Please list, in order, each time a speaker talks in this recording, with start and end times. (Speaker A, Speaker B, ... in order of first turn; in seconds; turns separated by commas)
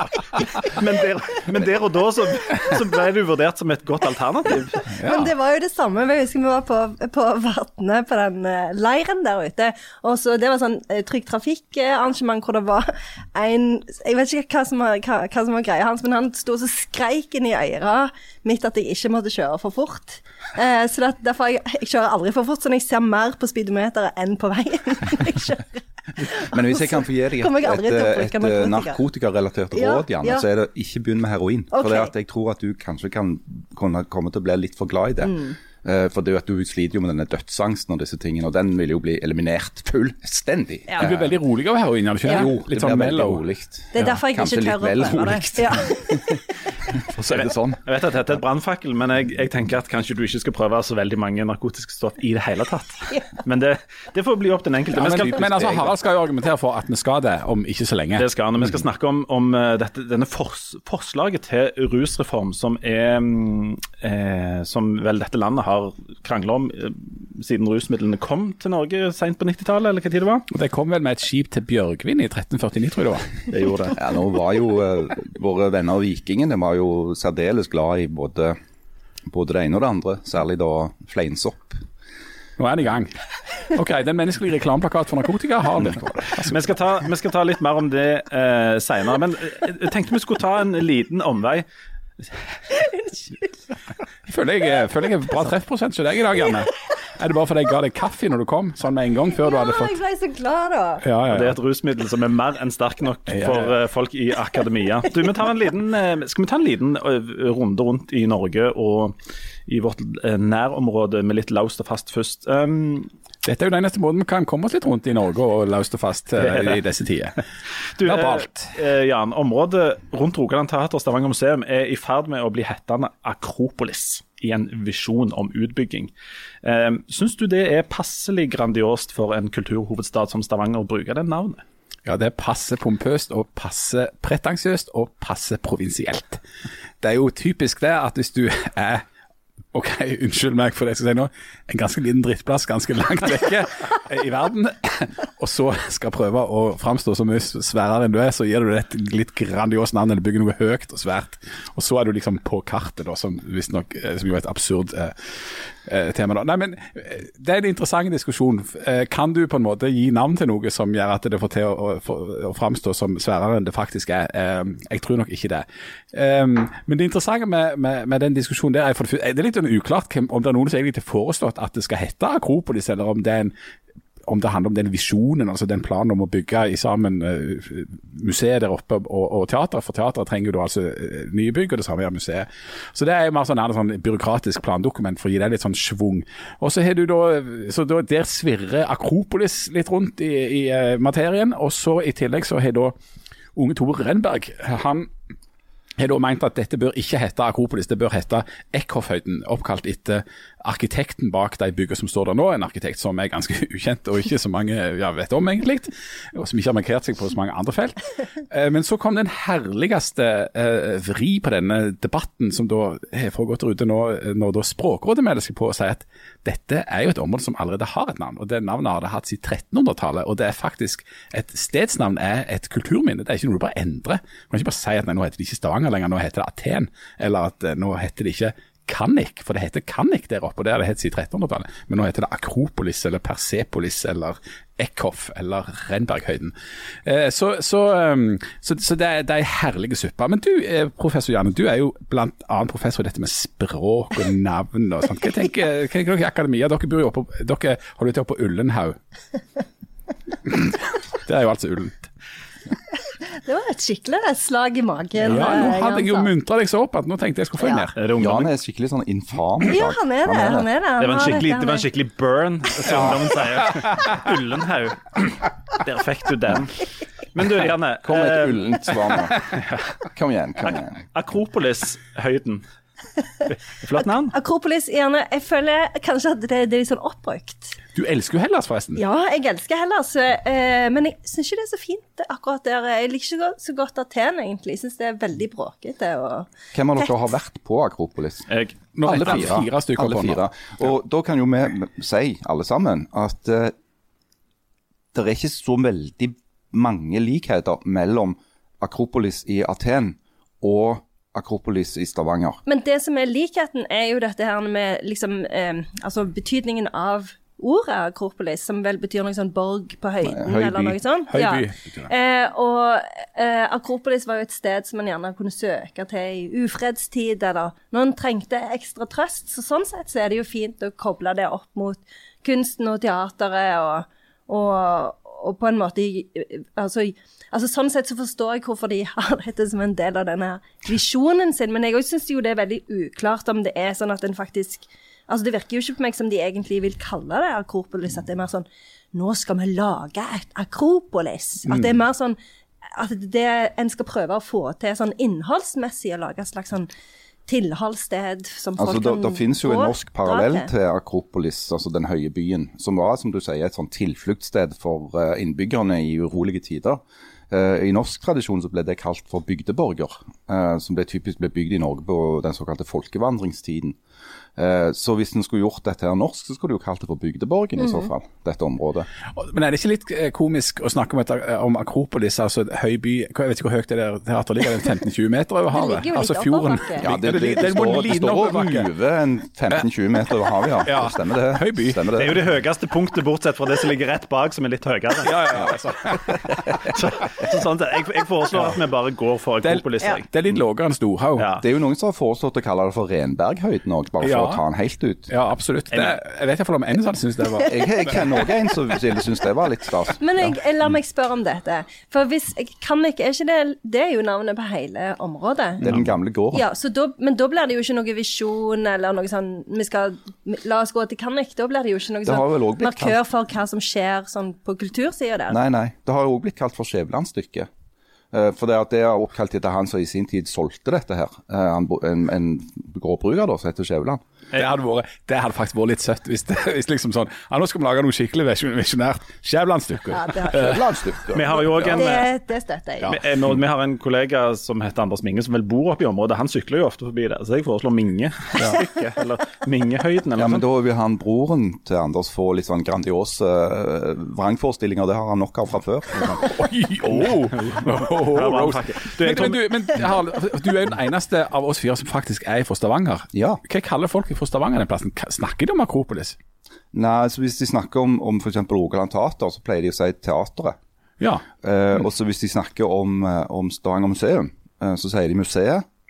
Speaker A: 0.4-4.9, Speaker B: 4.9-29.0, Speaker C: 5.0-5.3, Speaker D: 26.2-41.4, Speaker B: 29.7-30.5, Speaker B: 31.7-32.1, Speaker B: 35.2-35.5, Speaker B: 40.9-41.1, Speaker C: 41.0-43.5, Speaker D: 42.3-47.8, Speaker B: 43.9-46.4, Speaker A: 47.3-55.9, Speaker C: 55.0-58.3, Speaker A: 58.1-70.5, Speaker C: 70.5-73.5, Speaker D: 73.9-78.6, Speaker D: 79.3-81.8, Speaker C: 82.6-86.7, Speaker A: 86.3-91.7, Speaker A: 92.2-92.6, Speaker B: 92.7-93.5, Speaker C: 94.3-100.0, Speaker B: 99.4-101.0, Speaker C: 101.0-101.6, Speaker A: 101.3-113.1, Speaker C: 103.3-103.7, Speaker C: 113.4-117.4, Speaker A: 118.0-126.1, Speaker C: 118.0-118.7, Speaker A: 126.6-131.6, Speaker C: 132.1-136.4, Speaker C: 137.0-139.1, Speaker C: 139.7-173.5, Speaker C: 174.2-192.9, Speaker C: 193.6-195.1, Speaker C: 196.0-249.0, Speaker C: 250.4-252.1, Speaker B: 253.3-256.3, Speaker C: 255.2-258.0, Speaker A: 257.9-258.5, Speaker D: 258.2-260.7, Speaker B: 259.7-261.9, Speaker A: 261.0-268.6, Speaker C: 262.9-264.2, Speaker D: 268.0-271.0, Speaker A: 270.7-272.6, Speaker A: 273.5-274.4, Speaker B: 274.0-277.8, Speaker C: 277.9-279.0, Speaker B: 279.0-287.1, Speaker D: 286.7-293.7, Speaker A: 288.5-288.8, Speaker C: 289.0-290.4, Speaker D: 295.1-302.6, Speaker B: 302.7-342.4, Speaker D: 310.2-311.0, Speaker C: 311.3-312.1, Speaker B: 343.0-346.9, Speaker B: 347.5-350.7, Speaker D: 348.8-364.0, Speaker D: 364.6-369.1, Speaker B: 367.8-368.1, Speaker C: 369.3-378.9, Speaker B: 375.7-377.1, Speaker D: 377.0-382.4, Speaker C: 380.8-382.0, Speaker A: 382.1-385.8, Speaker C: 385.2-386.6, Speaker A: 386.5-390.3, Speaker C: 389.6-391.5, Speaker A: 391.4-391.6, Speaker D: 391.6-395.3, Speaker C: 394.2-394.6, Speaker C: 395.3-398.3, Speaker D: 397.7-400.5, Speaker B: 400.2-405.9, Speaker C: 405.8-406.1, Speaker D: 405.8-406.6, Speaker B: 406.5-415.6, Speaker D: 412.2-413.2, Speaker D: 415.5-417.7, Speaker D: 418.3-424.2, Speaker C: 424.5-430.9, Speaker B: 430.1-430.8, Speaker D: 430.4-431.6, Speaker A: 431.3-432.3, Speaker B: 431.6-433.2, Speaker A: 433.1-440.6, Speaker D: 440.4-446.4, Speaker C: 446.2-456.4, Speaker A: 447.3-449.6, Speaker D: 453.3-453.6, Speaker D: 456.9-460.8, Speaker C: 461.2-461.5, Speaker D: 461.6-465.9